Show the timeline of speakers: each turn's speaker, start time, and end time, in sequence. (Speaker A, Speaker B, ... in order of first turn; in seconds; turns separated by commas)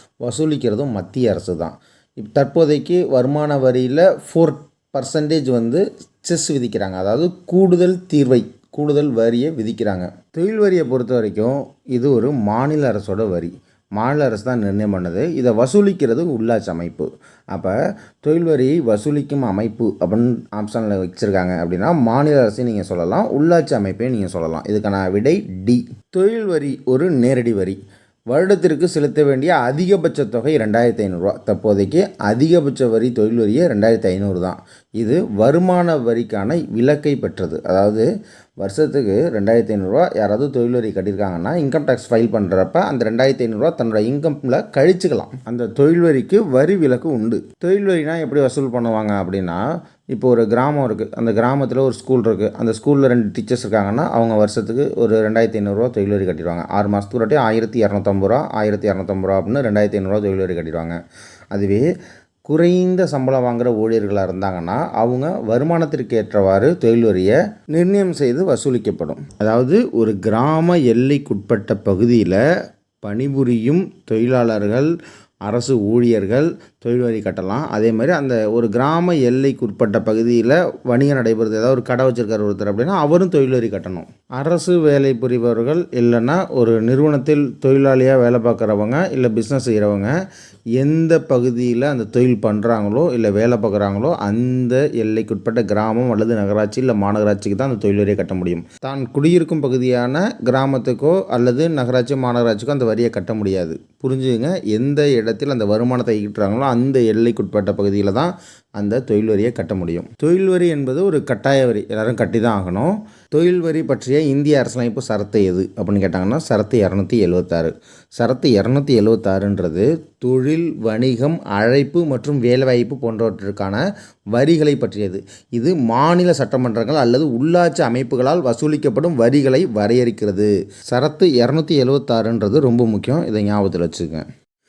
Speaker A: 0.2-27.8, Speaker A: 28.3-38.0, Speaker A: 38.6-49.6, Speaker A: 50.1-61.0, Speaker A: 61.5-61.8, Speaker A: 62.5-72.4, Speaker A: 73.0-74.9, Speaker A: 75.5-90.1, Speaker A: 90.8-123.8, Speaker A: 124.3-134.2